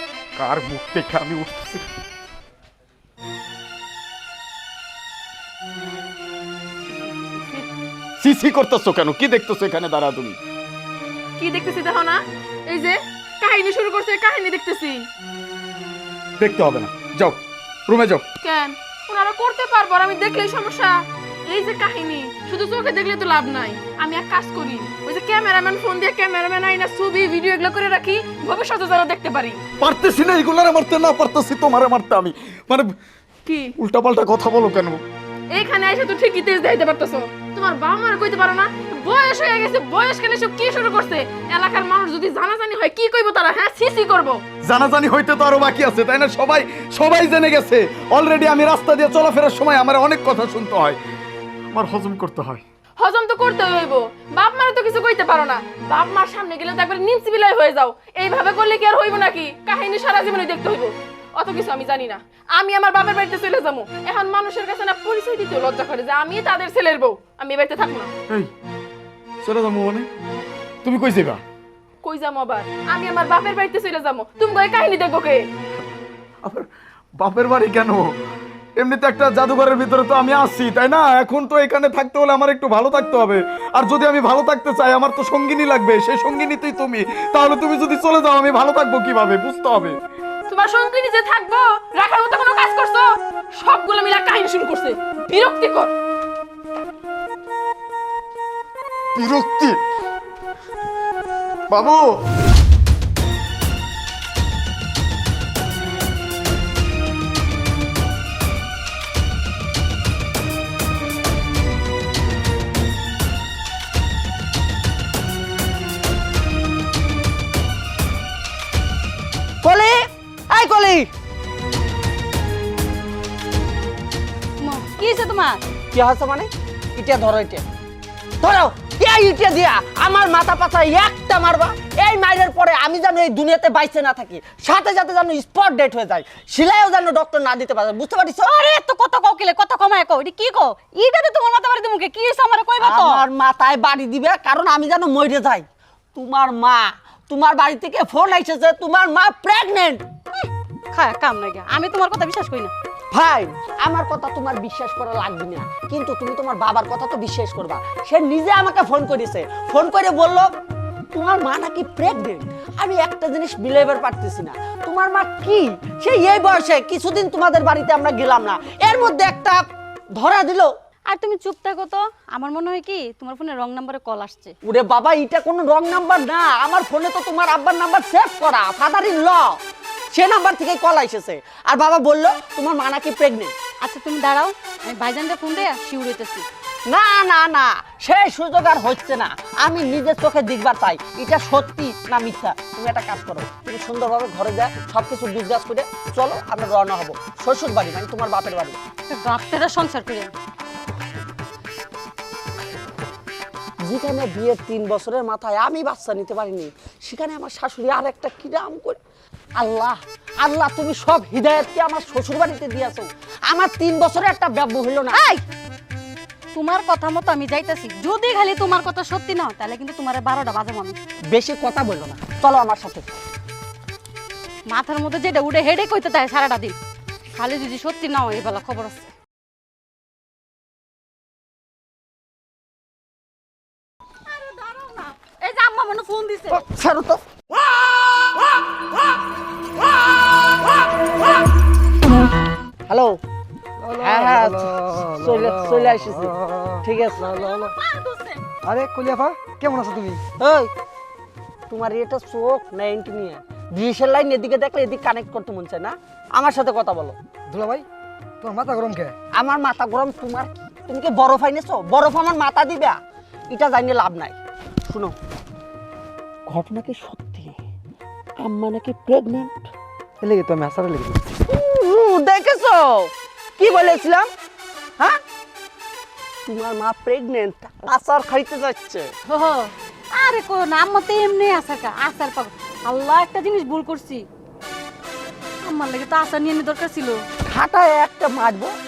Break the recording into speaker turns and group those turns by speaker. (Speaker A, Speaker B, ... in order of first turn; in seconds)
Speaker A: 0.3-1.9, 8.2-10.4, 16.4-18.2, 29.8-32.9, 33.8-35.0, 44.6-51.0, 51.7-52.6, 69.4-70.1, 70.8-71.4, 77.2-78.1, 78.8-89.9, 99.1-99.8, 101.7-102.0
Speaker B: 11.4-15.1, 18.4-29.6, 33.5-33.7, 35.5-44.4, 53.0-68.1, 72.0-75.4, 90.5-93.1, 93.6-95.9
Speaker C: 119.6-121.1, 125.9-127.6, 128.4-138.6, 142.8-150.0, 153.1-160.5, 161.1-169.6, 170.2-170.7, 174.6-179.6, 180.1-183.5, 186.9-198.8, 203.8-209.0, 209.6-215.3, 221.3-223.1, 236.5-237.2, 242.9-243.2, 244.0-246.3, 246.8-247.3, 250.4-250.7, 251.7-257.1, 259.4-263.0, 263.5-264.4, 264.9-265.1, 266.5-267.6, 268.4-269.7, 271.5-274.3, 276.5-279.1, 287.5-288.7
Speaker D: 124.6-125.6, 138.5-143.2, 150.4-152.7, 171.1-174.5, 183.8-186.4, 199.1-200.3, 216.5-221.0, 224.7-226.8, 227.3-229.1, 234.4-236.5, 247.2-248.4, 279.3-284.2, 285.6-287.2
Speaker E: 243.8-247.8, 248.6-250.2, 257.5-257.8, 258.4-259.1, 270.2-271.3